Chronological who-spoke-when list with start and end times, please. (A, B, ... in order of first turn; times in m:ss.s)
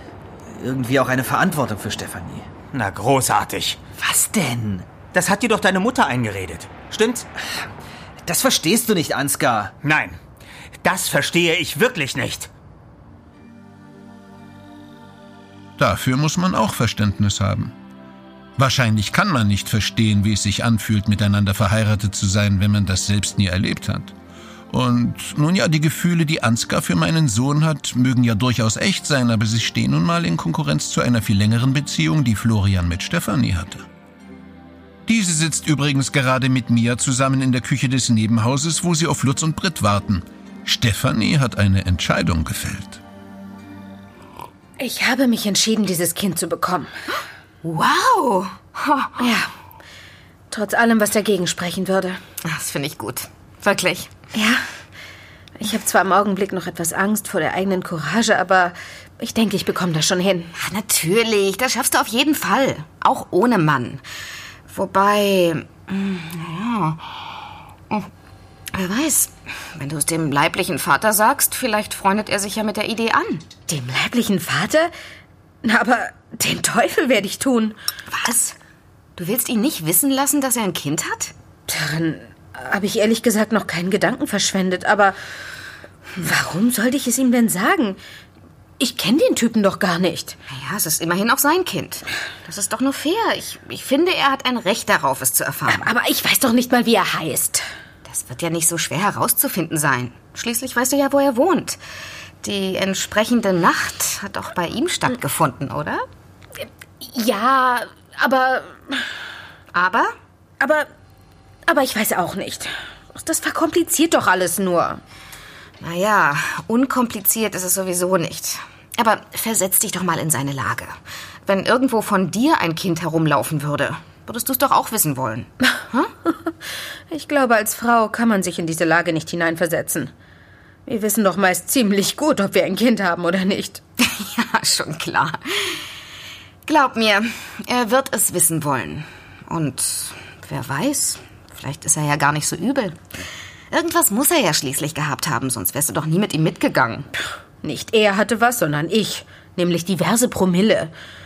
0:00.5-0:02.5 A
0:02.7-0:03.8 B
0:04.0-0:05.0 A
0:05.1-0:07.3 B
0:08.2-0:09.7 A
0:09.8-0:10.2 B
0:10.8-0:12.5 B
0:15.8-0:17.7 C
0:18.6-0:24.1 C
0:24.7-0:33.8 C
0:35.1-0:43.0 C
0:44.8-0:46.9 D
0:47.6-0:49.1 E
0:49.2-0:49.5 D
0:50.5-0:52.2 D
0:52.4-0:54.1 E
0:54.3-0:54.6 D
0:55.6-1:00.5 D
1:00.6-1:04.0 E
1:04.7-1:07.2 E
1:08.8-1:13.4 E
1:13.7-1:14.9 D
1:15.6-1:17.8 D
1:18.1-1:18.5 E
1:19.2-1:21.3 E
1:21.7-1:25.2 D
1:26.2-1:28.0 D
1:28.8-1:30.3 D
1:30.5-1:35.9 E
1:35.7-1:37.6 D
1:38.1-1:41.8 E
1:42.4-1:46.0 E
1:47.0-1:49.0 D
1:49.7-1:50.1 E
1:50.6-1:50.8 D
1:51.7-1:55.0 D
1:55.8-2:00.9 E
2:01.4-2:06.1 E
2:07.1-2:10.1 D
2:10.8-2:13.8 D
2:14.1-2:15.8 E
2:16.6-2:23.0 E
2:23.7-2:27.1 E
2:27.6-2:30.9 D